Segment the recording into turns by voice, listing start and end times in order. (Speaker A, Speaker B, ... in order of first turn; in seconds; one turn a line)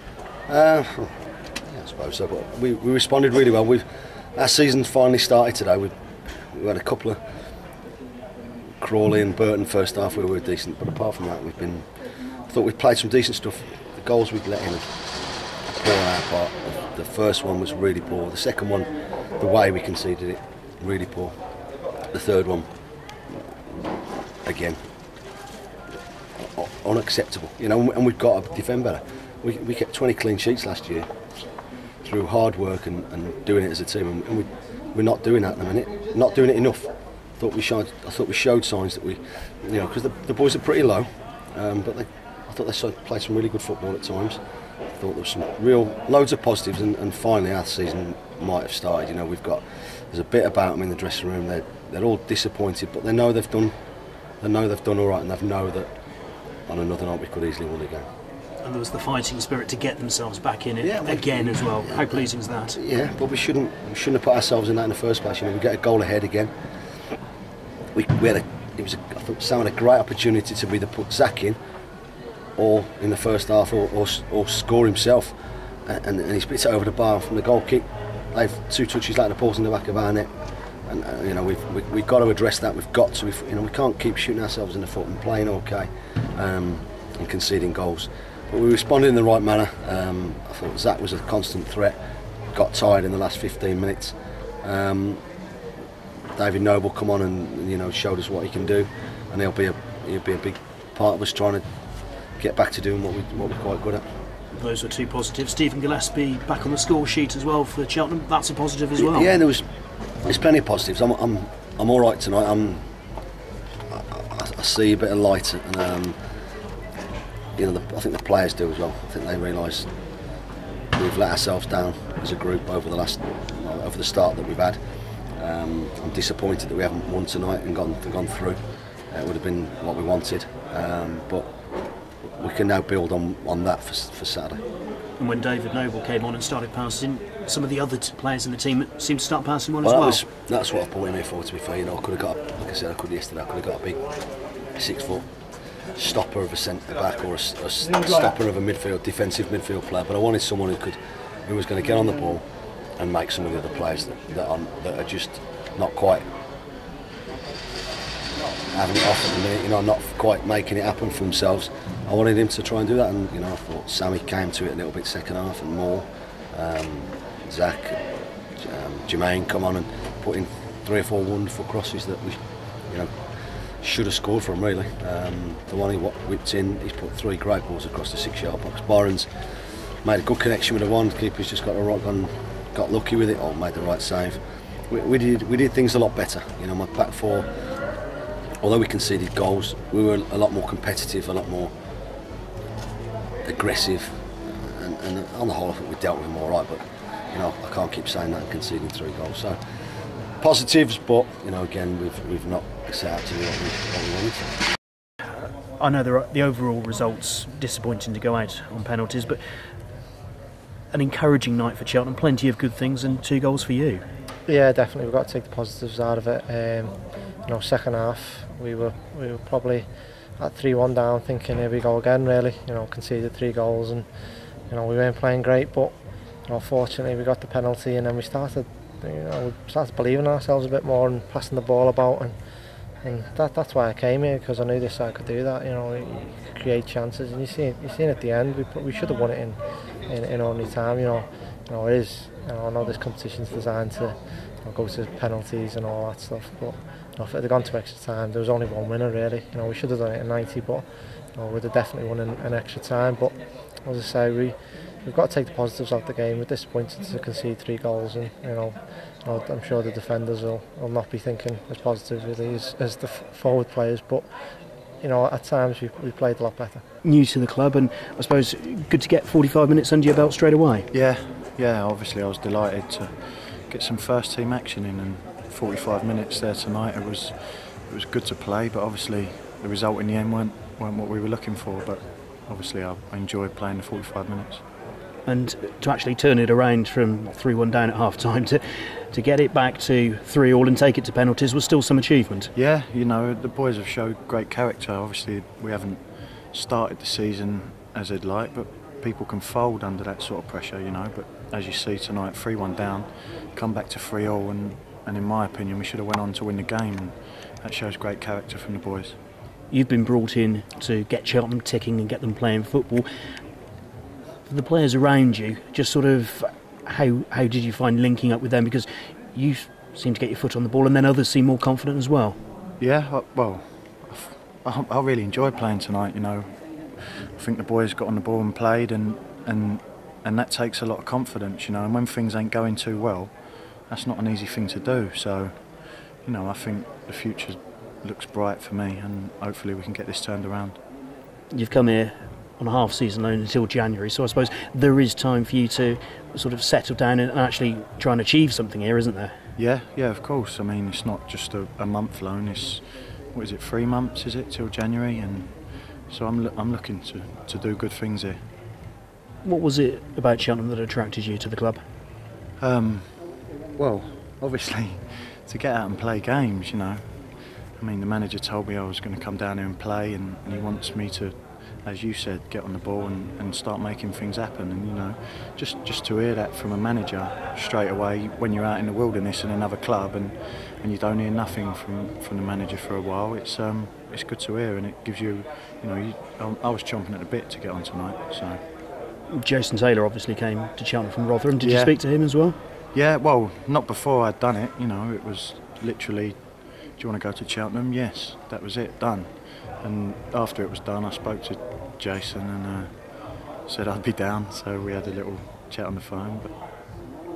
Speaker A: 0.5-1.1
Speaker A: 1.7-3.8
Speaker A: 4.3-5.9
Speaker A: 6.5-7.2
Speaker A: 8.8-11.9
Speaker A: 12.5-14.9
Speaker A: 15.7-18.9
Speaker A: 19.4-21.3
Speaker A: 22.1-22.7
Speaker A: 24.4-24.8
Speaker A: 26.4-31.1
Speaker A: 32.0-44.4
Speaker A: 45.0-53.7
Speaker A: 54.4-55.9
Speaker A: 56.7-58.0
Speaker B: 58.6-62.8
Speaker A: 60.8-66.5
Speaker A: 67.9-71.6
Speaker A: 72.6-75.3
Speaker A: 75.8-80.3
Speaker A: 80.9-92.0
Speaker A: 92.5-95.2
Speaker A: 96.3-101.6
Speaker A: 102.4-104.0
Speaker B: 104.5-109.3
Speaker A: 109.0-109.6
Speaker A: 110.2-112.8
Speaker A: 113.9-116.2
Speaker A: 117.6-119.9
Speaker A: 121.0-124.8
Speaker A: 125.4-128.6
Speaker A: 129.1-131.5
Speaker A: 132.4-134.6
Speaker B: 135.2-140.2
Speaker A: 139.8-144.0
Speaker A: 144.8-145.2
Speaker A: 145.9-152.4
Speaker A: 153.0-156.2
Speaker A: 158.7-168.0
Speaker A: 168.6-173.1
Speaker A: 173.8-179.3
Speaker A: 180.0-187.5
Speaker A: 188.6-191.7
Speaker A: 193.4-199.6
Speaker A: 200.4-204.4
Speaker B: 205.8-209.4
Speaker B: 210.9-214.0
Speaker C: 214.4-224.1
Speaker C: 224.7-225.9
Speaker C: 226.5-232.3
Speaker C: 233.0-264.2
Speaker C: 265.0-266.8
Speaker B: 267.0-270.9
Speaker D: 270.9-284.6
Speaker B: 285.2-288.6
Speaker B: 289.1-292.5
Speaker D: 292.5-309.1
Speaker B: 309.7-313.1
Speaker B: 314.5-322.4
Speaker D: 322.8-340.8
Speaker B: 341.5-349.3
Speaker D: 349.6-358.4
Speaker B: 359.4-361.8
Speaker D: 362.6-367.0
Speaker D: 367.7-388.6
Speaker B: 389.3-392.6
Speaker D: 391.6-392.0
Speaker D: 392.9-396.4
Speaker D: 396.9-403.1
Speaker D: 403.6-406.5